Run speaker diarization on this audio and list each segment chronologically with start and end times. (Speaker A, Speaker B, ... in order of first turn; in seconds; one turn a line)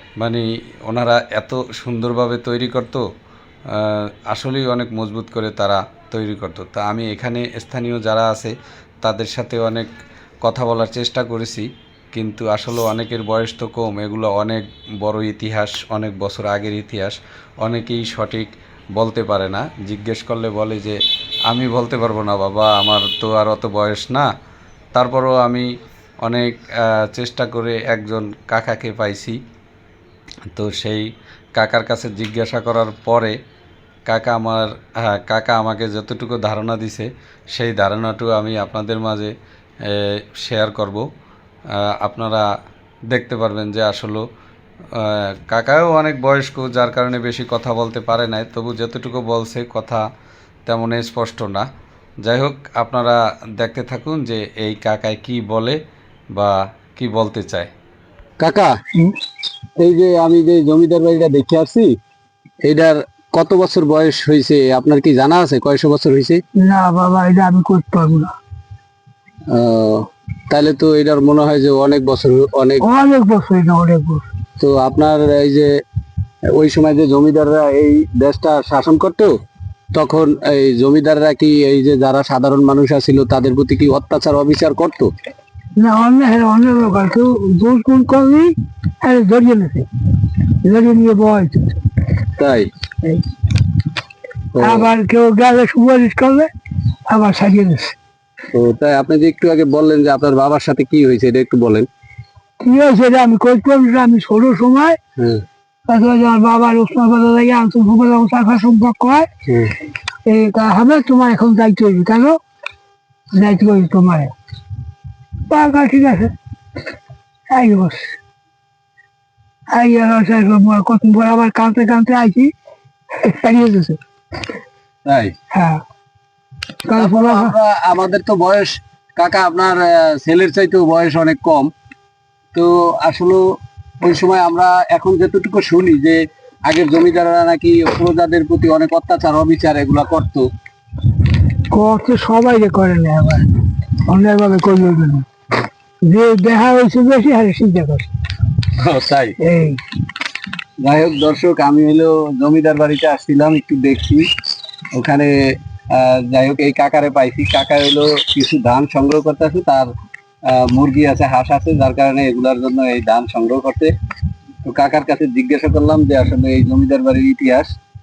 Speaker A: 0.2-3.0
Speaker A: 3.7-9.9
Speaker A: 10.4-21.0
Speaker A: 21.5-24.3
Speaker A: 24.9-25.7
Speaker A: 26.2-29.4
Speaker A: 30.5-33.4
Speaker A: 34.1-39.3
Speaker A: 39.9-41.0
Speaker A: 41.9-42.5
Speaker A: 43.1-44.2
Speaker A: 45.0-50.0
Speaker A: 50.7-51.7
Speaker A: 52.2-55.8
Speaker A: 56.4-57.7
Speaker B: 58.4-58.8
Speaker B: 59.8-61.9
Speaker B: 62.6-66.4
Speaker C: 66.6-68.3
Speaker B: 69.5-72.8
Speaker C: 72.8-74.2
Speaker B: 74.6-75.7
Speaker B: 76.5-79.3
Speaker B: 79.9-85.1
Speaker C: 85.8-91.8
Speaker B: 92.4-92.7
Speaker B: 94.5-94.9
Speaker C: 94.6-96.5
Speaker C: 97.1-98.0
Speaker B: 98.5-101.9
Speaker C: 102.6-105.0
Speaker B: 105.2-105.4
Speaker C: 105.9-109.3
Speaker B: 109.5-109.8
Speaker C: 110.3-112.4
Speaker C: 113.3-114.3
Speaker C: 115.5-116.3
Speaker C: 117.5-118.2
Speaker C: 119.7-122.5
Speaker C: 123.2-124.0
Speaker B: 125.1-125.3
Speaker C: 125.5-125.8
Speaker C: 126.8-127.5
Speaker B: 127.0-131.7
Speaker B: 132.5-133.4
Speaker B: 134.0-140.5
Speaker C: 141.7-143.5
Speaker C: 144.1-145.3
Speaker C: 146.0-148.1
Speaker B: 148.8-149.3
Speaker C: 149.4-149.8
Speaker B: 150.8-154.3
Speaker B: 154.9-155.3
Speaker B: 155.9-159.9
Speaker B: 160.5-163.9
Speaker B: 164.7-167.7